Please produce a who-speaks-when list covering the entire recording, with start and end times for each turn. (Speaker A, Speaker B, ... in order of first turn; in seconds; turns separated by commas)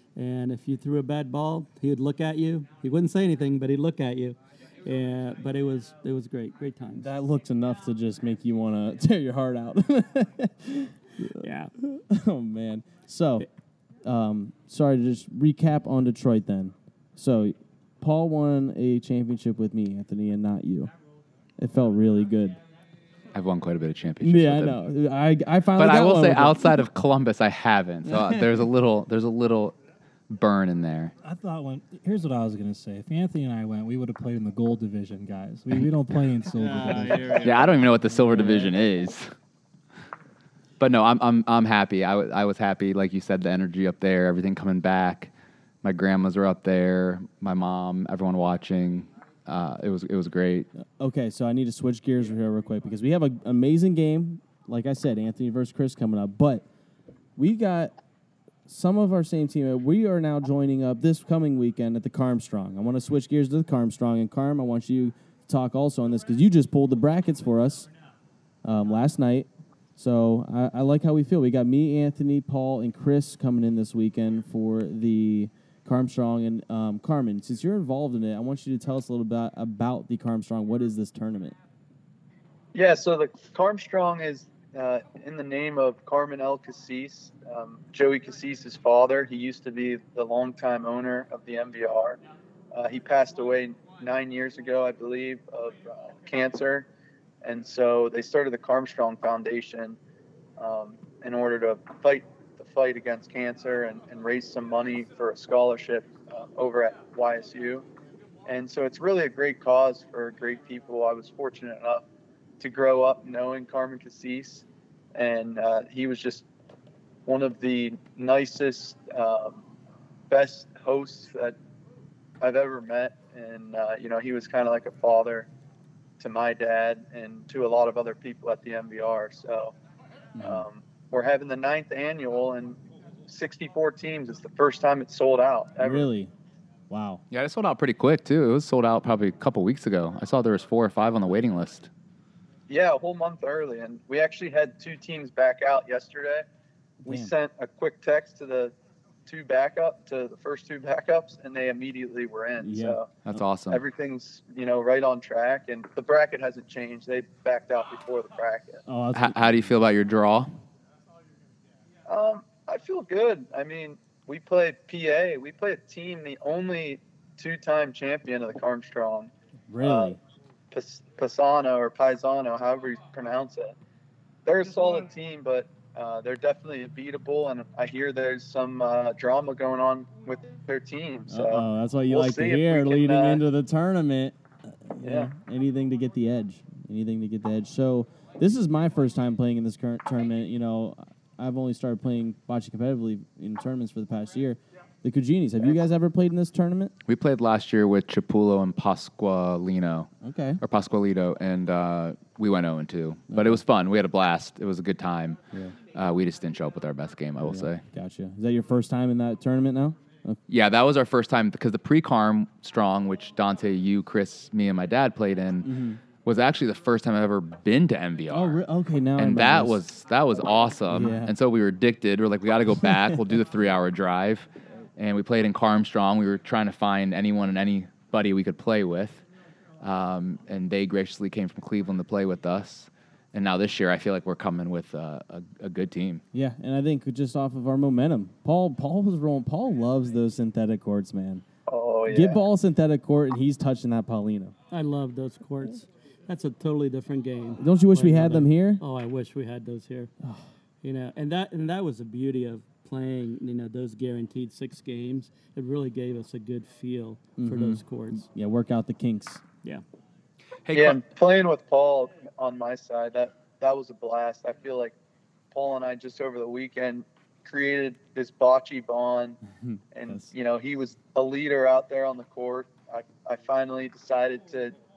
Speaker A: 0.1-7.1, Speaker B: 6.9-13.4, Speaker A: 11.3-11.7, Speaker B: 14.0-20.9, Speaker B: 21.6-22.6, Speaker C: 23.3-24.9, Speaker B: 24.2-26.7, Speaker C: 25.7-29.8, Speaker C: 30.3-31.1, Speaker D: 31.2-37.4, Speaker A: 36.5-38.7, Speaker C: 37.4-39.3, Speaker C: 40.8-45.3, Speaker C: 45.8-50.7, Speaker B: 50.8-56.6, Speaker B: 57.4-57.9, Speaker B: 58.7-67.9, Speaker B: 68.6-81.6, Speaker E: 82.7-92.2, Speaker E: 92.7-96.9, Speaker E: 97.4-100.0, Speaker E: 100.6-107.8, Speaker E: 108.5-112.0, Speaker E: 112.6-116.4, Speaker E: 117.2-119.6, Speaker E: 120.3-121.5, Speaker E: 122.4-125.5, Speaker E: 126.2-129.7, Speaker B: 130.3-130.6, Speaker E: 130.4-136.1, Speaker B: 135.8-136.3, Speaker B: 136.9-137.2, Speaker C: 137.3-141.9, Speaker E: 142.7-146.4, Speaker B: 147.0-147.3, Speaker E: 147.1-148.7, Speaker E: 149.2-153.1, Speaker B: 152.6-153.0, Speaker C: 153.2-153.8, Speaker E: 153.7-158.8, Speaker B: 158.8-159.7, Speaker C: 159.1-160.5, Speaker E: 162.1-170.1, Speaker B: 169.7-170.2, Speaker E: 170.7-173.8, Speaker E: 174.4-183.4, Speaker B: 181.3-196.9, Speaker E: 185.0-185.3, Speaker C: 197.0-205.4, Speaker B: 200.2-200.6, Speaker B: 203.3-203.6, Speaker C: 205.9-207.8, Speaker B: 207.4-210.4, Speaker C: 210.5-218.6, Speaker B: 215.6-216.0, Speaker B: 218.3-219.8, Speaker C: 219.2-229.2, Speaker B: 220.9-221.3, Speaker C: 229.8-236.2, Speaker B: 236.3-241.4, Speaker E: 241.7-242.4, Speaker B: 242.1-244.5, Speaker A: 244.7-250.1, Speaker B: 247.6-248.8, Speaker A: 250.8-258.2, Speaker B: 257.4-259.4, Speaker C: 260.6-261.0, Speaker E: 260.7-264.9, Speaker E: 265.5-269.4, Speaker B: 269.6-270.3, Speaker E: 269.9-274.7